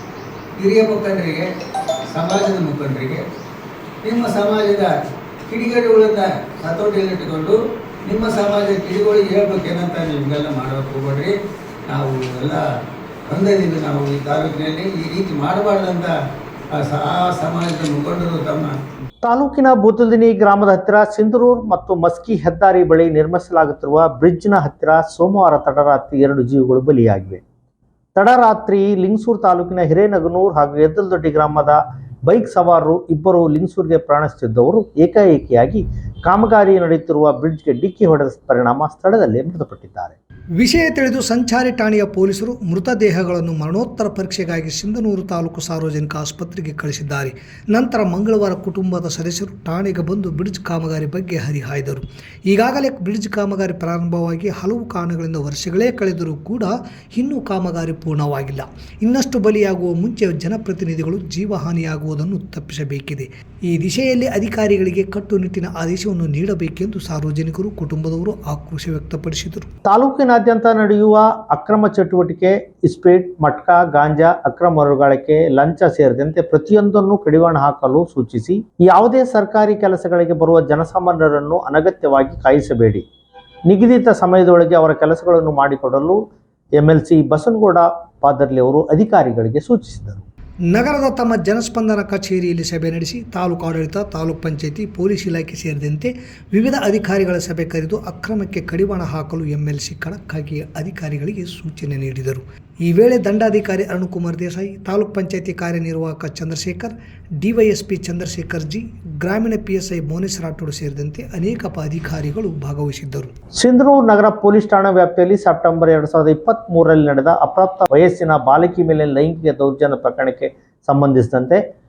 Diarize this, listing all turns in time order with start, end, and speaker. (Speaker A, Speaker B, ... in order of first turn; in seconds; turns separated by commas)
Speaker A: 0.6-1.4, Speaker A: 2.1-3.2, Speaker A: 4.0-4.9, Speaker A: 5.5-11.3, Speaker A: 11.9-12.6, Speaker A: 13.3-16.1, Speaker A: 16.8-18.8, Speaker B: 19.2-27.4, Speaker B: 28.2-40.2, Speaker C: 40.6-69.7, Speaker B: 69.9-83.0, Speaker B: 83.7-86.2, Speaker B: 86.8-90.3, Speaker C: 90.7-113.3, Speaker B: 113.6-121.6